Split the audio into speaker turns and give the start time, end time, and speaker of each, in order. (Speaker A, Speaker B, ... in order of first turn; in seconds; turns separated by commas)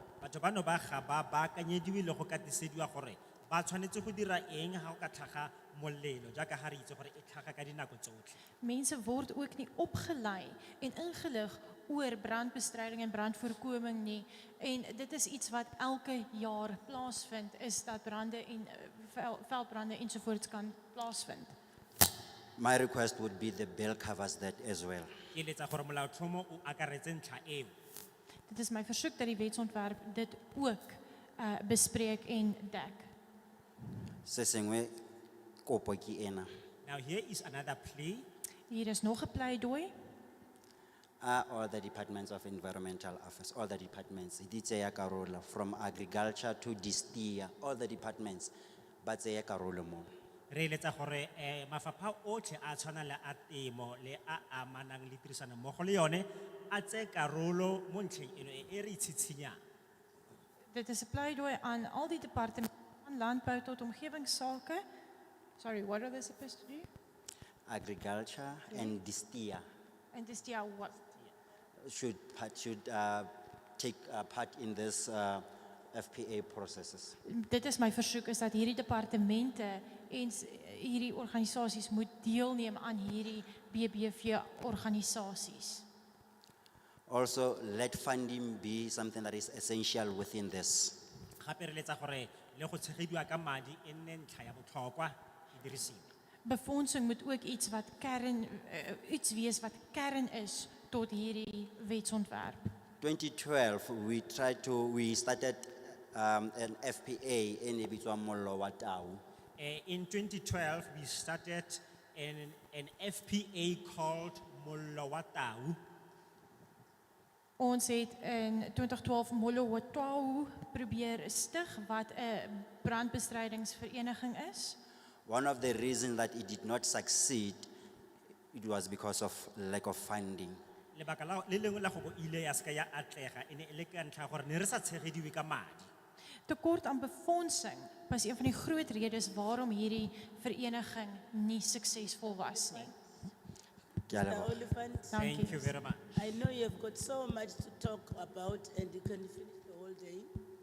Speaker A: 0.2-8.4, Speaker B: 8.6-21.6, Speaker C: 22.6-25.1, Speaker A: 25.3-27.7, Speaker B: 28.5-33.1, Speaker C: 34.2-34.9, Speaker C: 35.6-36.5, Speaker A: 36.9-38.3, Speaker B: 38.7-39.9, Speaker C: 41.2-48.5, Speaker C: 49.0-50.1, Speaker A: 50.5-59.6, Speaker B: 60.7-64.8, Speaker B: 65.6-66.9, Speaker C: 67.7-69.7, Speaker B: 68.7-69.0, Speaker B: 70.1-71.0, Speaker C: 71.8-77.2, Speaker B: 77.3-85.8, Speaker C: 87.1-91.1, Speaker A: 91.4-96.1, Speaker B: 96.5-102.6, Speaker C: 103.0-109.2, Speaker A: 109.6-115.8, Speaker B: 117.6-124.8, Speaker C: 125.3-127.7, Speaker C: 128.5-130.6, Speaker A: 130.9-135.9, Speaker B: 136.5-142.9, Speaker D: 142.1-142.9, Speaker C: 144.1-144.7, Speaker D: 144.2-145.2, Speaker B: 145.1-145.7, Speaker A: 145.2-146.2, Speaker D: 146.2-150.3